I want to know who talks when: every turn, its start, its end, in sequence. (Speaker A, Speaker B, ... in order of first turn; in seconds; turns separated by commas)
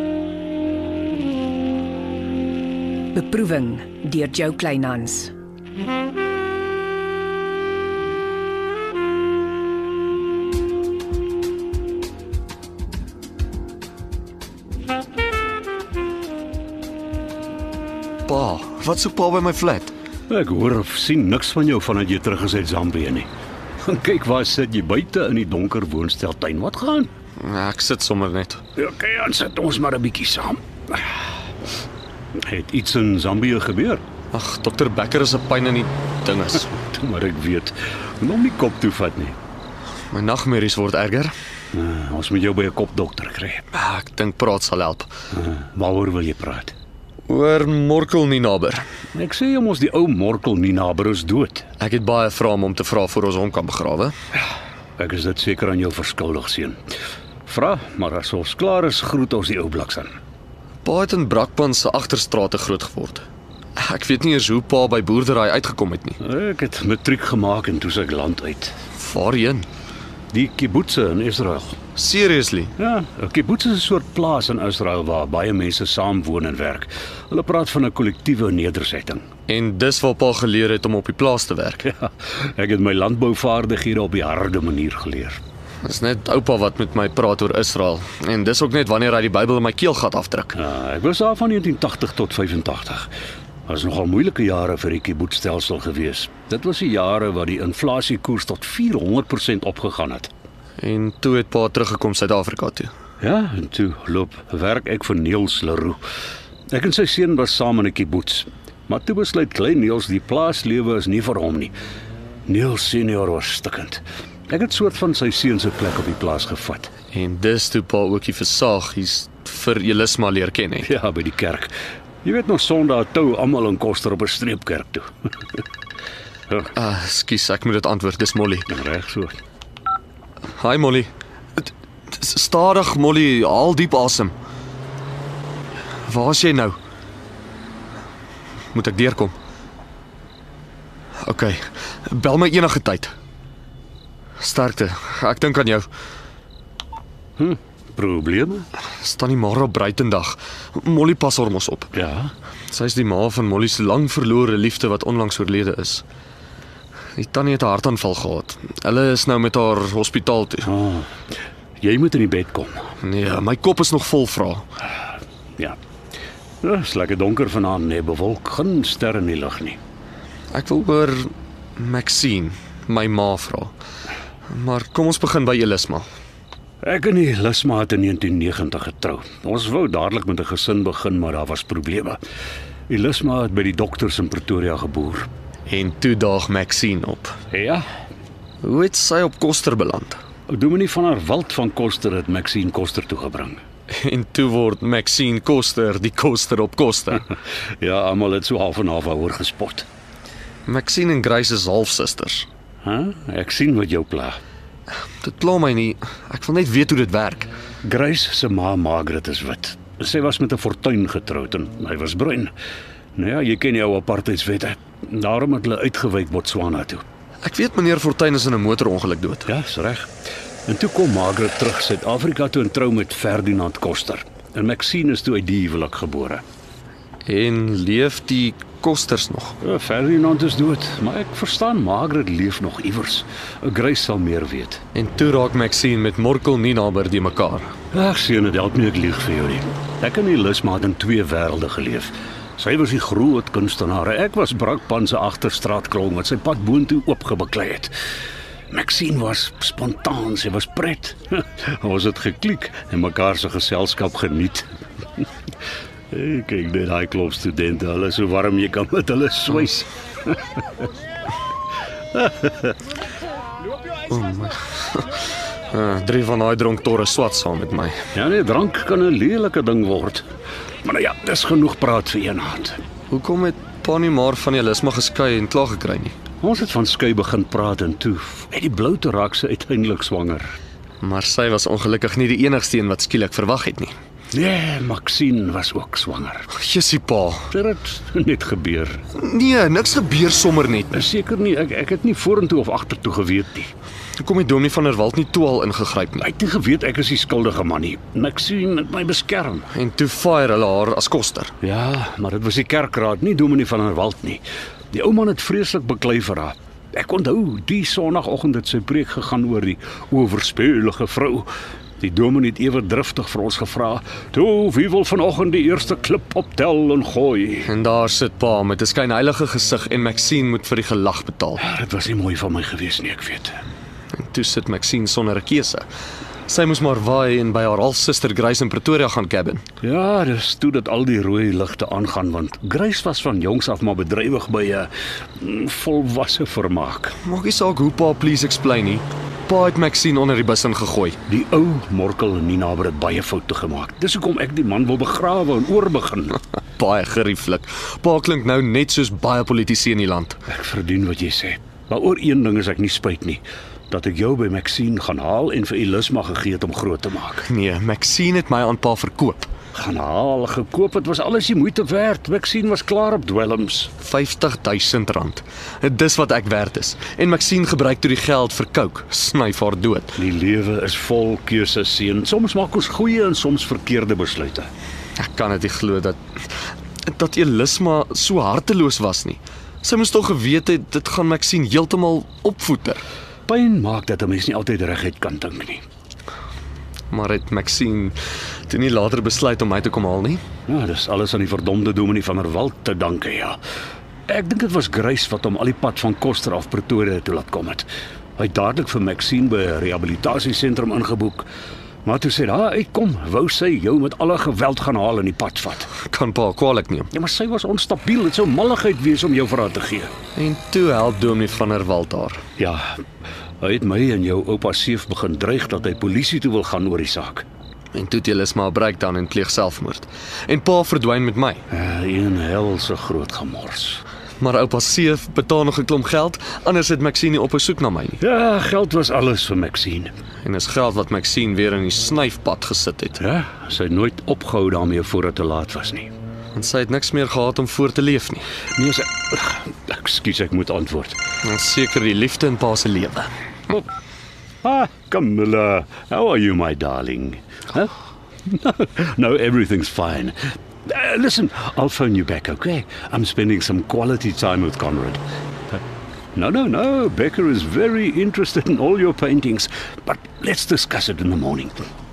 Speaker A: 3.1-5.3, Speaker B: 18.3-19.9, Speaker C: 20.3-23.3, Speaker C: 23.8-27.1, Speaker B: 27.4-28.6, Speaker C: 28.8-31.1, Speaker C: 32.4-34.0, Speaker B: 34.3-36.7, Speaker C: 36.8-39.4, Speaker B: 40.1-41.3, Speaker C: 41.7-43.6, Speaker B: 43.7-45.1, Speaker C: 45.3-46.7, Speaker B: 47.3-48.9, Speaker C: 49.1-51.7, Speaker B: 51.8-54.1, Speaker C: 55.0-56.8, Speaker C: 57.5-60.1, Speaker B: 60.8-63.2, Speaker B: 63.8-66.2, Speaker C: 66.2-68.7, Speaker B: 68.9-69.7, Speaker C: 70.3-71.8, Speaker B: 72.0-72.7, Speaker C: 72.8-79.2, Speaker B: 79.5-81.9, Speaker C: 81.9-85.4, Speaker B: 85.8-90.6, Speaker C: 90.5-93.1, Speaker C: 93.7-100.3, Speaker B: 100.8-102.9, Speaker C: 103.2-106.0, Speaker C: 106.7-111.7, Speaker C: 112.5-116.9, Speaker B: 117.1-120.9, Speaker C: 120.8-121.7, Speaker C: 122.2-125.1, Speaker B: 126.7-128.7, Speaker C: 128.7-129.4, Speaker B: 130.6-134.3, Speaker B: 136.1-136.8, Speaker B: 138.7-139.3, Speaker B: 141.2-143.1, Speaker B: 144.4-145.9, Speaker C: 147.4-148.7, Speaker B: 149.0-151.9, Speaker C: 151.9-152.3, Speaker B: 152.7-156.0, Speaker B: 157.2-160.7, Speaker C: 160.7-161.1, Speaker C: 161.8-162.8, Speaker B: 163.0-164.6, Speaker C: 166.6-169.8, Speaker B: 170.5-173.7, Speaker B: 174.5-176.1, Speaker C: 176.8-182.2, Speaker C: 182.9-185.3, Speaker B: 185.7-187.4, Speaker C: 187.5-187.8, Speaker B: 188.6-190.2, Speaker C: 190.5-193.6, Speaker B: 193.9-197.2, Speaker C: 197.8-199.8, Speaker B: 200.7-202.5, Speaker C: 202.8-204.4, Speaker B: 205.2-207.5, Speaker C: 207.8-212.5, Speaker C: 213.2-217.0, Speaker B: 217.4-219.5, Speaker C: 219.5-220.1, Speaker C: 220.7-226.4, Speaker B: 227.2-229.6, Speaker C: 229.6-234.8, Speaker B: 234.9-237.7, Speaker C: 237.9-247.9, Speaker C: 248.7-254.7, Speaker C: 256.1-260.6, Speaker C: 262.1-262.7, Speaker B: 264.1-267.9, Speaker C: 268.1-270.2, Speaker C: 270.8-272.8, Speaker B: 273.1-276.1, Speaker C: 276.4-280.5, Speaker B: 281.0-283.9, Speaker C: 284.3-286.5, Speaker B: 286.5-287.5, Speaker C: 287.5-289.0, Speaker B: 289.1-291.0, Speaker C: 290.9-293.7, Speaker B: 294.2-296.3, Speaker C: 296.2-299.7, Speaker B: 299.7-301.5, Speaker C: 301.6-311.5, Speaker C: 312.0-317.7, Speaker B: 317.6-321.6, Speaker C: 321.6-323.6, Speaker B: 324.1-325.8, Speaker B: 326.5-329.6, Speaker C: 329.8-337.1, Speaker B: 337.2-341.2, Speaker C: 341.3-346.4, Speaker B: 346.8-350.4, Speaker C: 350.5-357.4, Speaker B: 357.4-359.5, Speaker C: 359.7-363.9, Speaker B: 364.0-370.2, Speaker C: 370.2-374.7, Speaker B: 375.2-376.2, Speaker B: 377.0-383.0, Speaker C: 383.5-385.8, Speaker B: 387.1-388.1, Speaker B: 388.7-390.4, Speaker C: 390.7-393.6, Speaker C: 394.3-401.5, Speaker C: 402.0-405.9, Speaker B: 405.9-407.1, Speaker C: 407.1-410.1, Speaker B: 410.4-412.4, Speaker C: 412.6-413.0, Speaker C: 413.6-417.4, Speaker B: 417.9-421.6, Speaker C: 421.7-424.0, Speaker B: 424.4-428.2, Speaker C: 428.2-430.1, Speaker B: 430.4-433.2, Speaker C: 433.2-436.1, Speaker B: 436.5-438.4, Speaker C: 438.8-441.2, Speaker B: 441.4-443.8, Speaker C: 444.6-447.9, Speaker C: 448.4-455.2, Speaker C: 456.3-461.9